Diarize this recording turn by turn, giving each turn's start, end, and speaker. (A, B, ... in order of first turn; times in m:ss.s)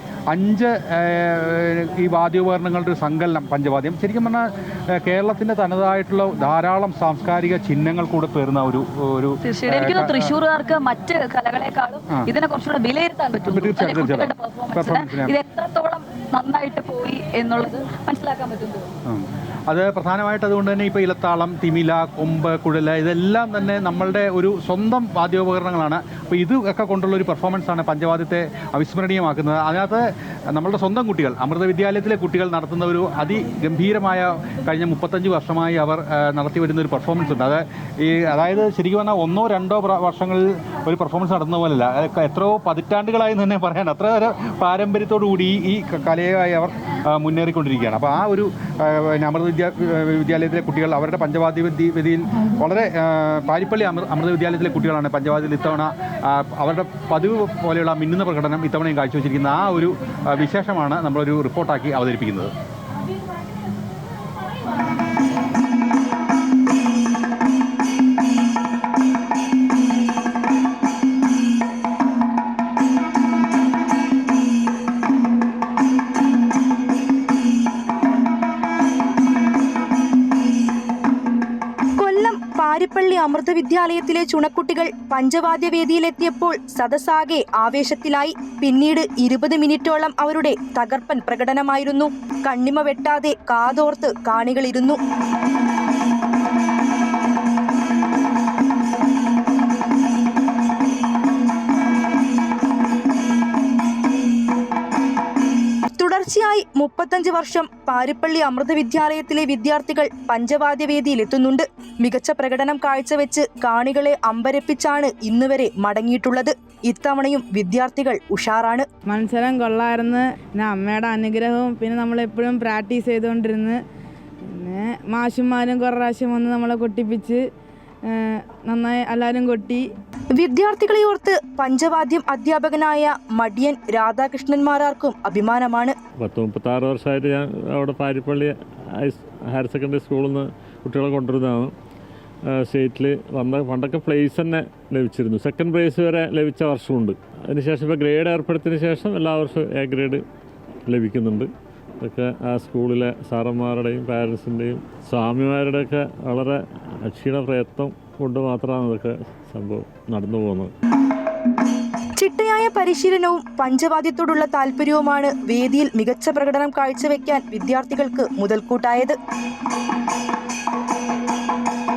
0:00.3-0:10.3 A
0:09.4-0:18.9 B
0:13.5-0:15.4 A
0:19.1-1:02.5 A
1:22.0-1:35.0 C
1:46.0-1:58.9 C
1:59.1-2:03.8 D
2:04.5-2:07.4 D
2:08.1-2:09.8 D
2:10.4-2:16.0 C
2:16.2-2:21.7 E
2:22.5-2:30.2 E
2:30.9-2:31.5 E
2:32.0-2:40.7 E
2:42.2-2:49.2 C